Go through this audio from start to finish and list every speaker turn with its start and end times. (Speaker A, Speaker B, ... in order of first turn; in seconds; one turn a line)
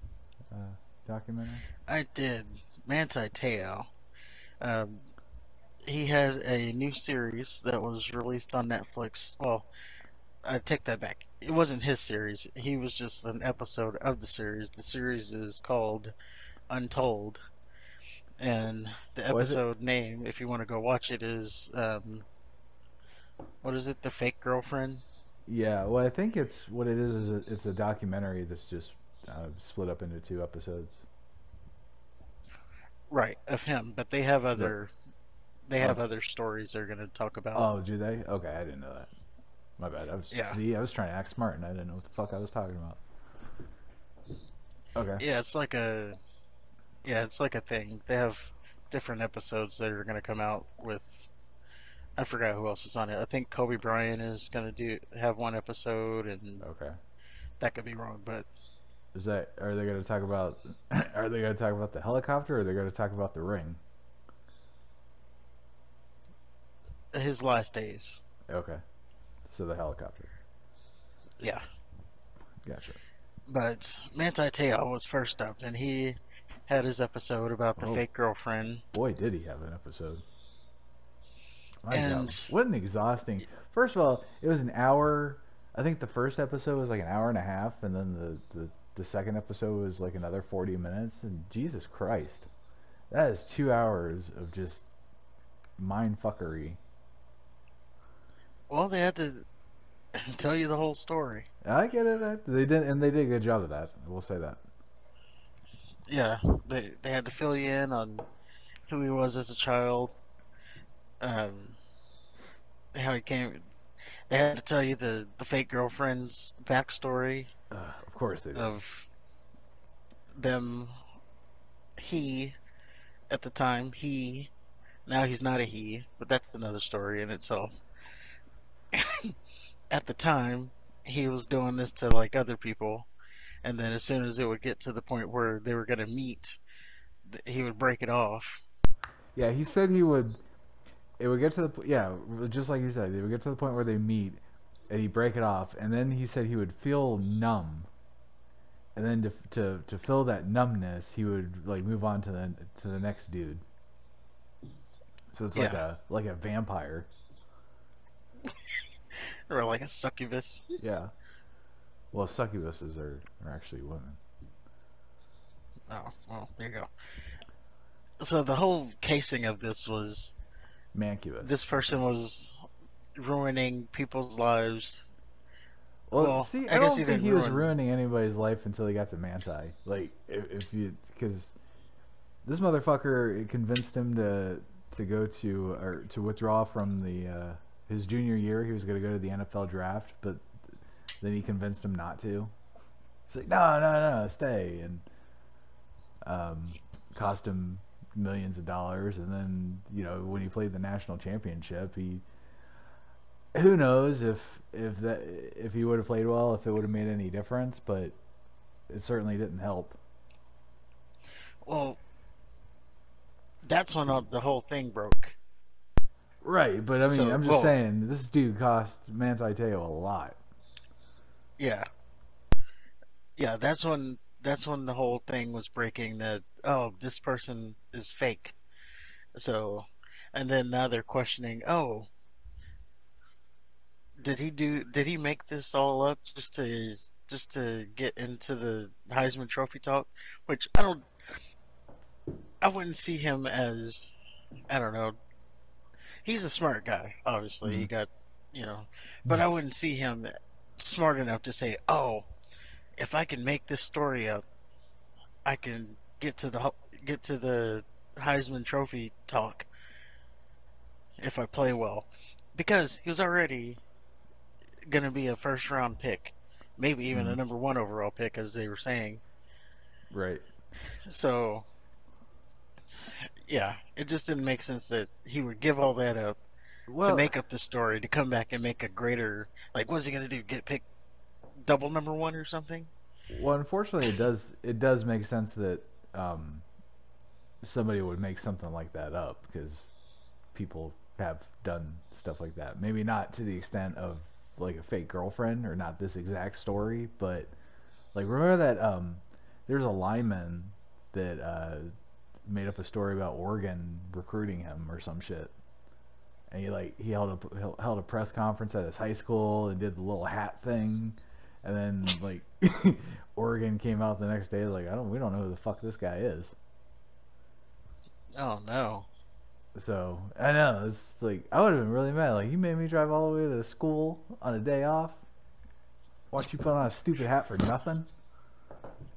Speaker A: 0.5-1.6
Speaker B: 1.9-3.9
Speaker B: 4.6-5.0
Speaker B: 5.8-9.7
Speaker B: 10.4-16.1
Speaker B: 16.7-17.4
Speaker B: 18.4-22.2
Speaker A: 19.3-19.6
Speaker B: 23.6-25.0
Speaker A: 25.5-31.0
Speaker B: 33.1-34.9
Speaker B: 35.7-37.7
Speaker A: 37.5-39.1
Speaker A: 39.8-43.0
Speaker B: 40.3-40.6
Speaker A: 45.0-45.2
Speaker B: 45.2-46.2
Speaker B: 47.0-51.3
Speaker B: 52.2-56.6
Speaker A: 56.6-57.0
Speaker B: 57.6-58.5
Speaker A: 59.1-63.8
Speaker B: 67.1-68.2
Speaker A: 68.5-68.8
Speaker A: 69.5-70.3
Speaker A: 72.6-73.0
Speaker B: 73.5-76.2
Speaker B: 76.7-78.8
Speaker A: 77.8-78.0
Speaker A: 78.9-80.2
Speaker A: 81.8-92.5
Speaker B: 81.9-82.5
Speaker A: 93.1-94.9
Speaker A: 95.8-96.8
Speaker B: 98.7-99.4
Speaker B: 100.2-101.5
Speaker A: 101.6-104.6
Speaker B: 106.1-108.3
Speaker B: 108.9-110.2
Speaker B: 111.2-111.8
Speaker B: 112.9-113.7
Speaker B: 114.3-117.5
Speaker A: 117.7-118.8
Speaker B: 118.5-119.1
Speaker B: 120.3-120.9
Speaker B: 122.0-122.5
Speaker B: 123.3-124.5
Speaker B: 125.0-127.7
Speaker B: 128.9-129.3
Speaker B: 129.9-133.1
Speaker B: 133.6-136.6
Speaker B: 137.2-138.6
Speaker A: 139.3-140.4
Speaker A: 141.2-147.9
Speaker A: 148.9-153.6
Speaker A: 155.3-157.1
Speaker B: 155.5-155.8
Speaker B: 159.1-160.8
Speaker A: 160.8-161.1
Speaker A: 162.1-164.2
Speaker B: 165.9-166.9
Speaker B: 168.2-170.3
Speaker A: 170.9-171.5
Speaker B: 171.4-172.5
Speaker B: 173.2-175.1
Speaker A: 176.1-181.5
Speaker B: 176.2-177.7
Speaker A: 182.4-190.5
Speaker A: 191.2-192.5
Speaker A: 193.3-195.0
Speaker A: 196.2-202.2
Speaker A: 203.5-208.2
Speaker A: 208.9-210.0
Speaker B: 211.6-212.0
Speaker B: 213.6-215.4
Speaker A: 216.4-220.4
Speaker B: 217.1-217.8
Speaker B: 221.6-221.8
Speaker B: 223.3-228.6
Speaker B: 229.3-232.1
Speaker B: 234.2-241.0
Speaker B: 242.6-244.1
Speaker B: 244.7-245.2
Speaker B: 246.2-252.3
Speaker A: 247.6-247.9
Speaker A: 249.2-249.5
Speaker B: 252.9-254.4
Speaker B: 255.4-259.7
Speaker B: 261.2-263.8
Speaker B: 264.9-269.2
Speaker A: 267.1-267.4
Speaker A: 270.1-270.4
Speaker B: 271.1-271.6
Speaker B: 273.0-276.4
Speaker A: 276.9-277.3
Speaker B: 277.0-280.8
Speaker B: 281.6-282.9
Speaker A: 283.3-286.6
Speaker A: 287.6-289.9
Speaker A: 290.5-297.5
Speaker A: 298.1-301.9
Speaker A: 302.4-305.5
Speaker A: 306.5-316.6
Speaker B: 318.3-319.1
Speaker A: 319.7-325.2
Speaker A: 326.3-328.1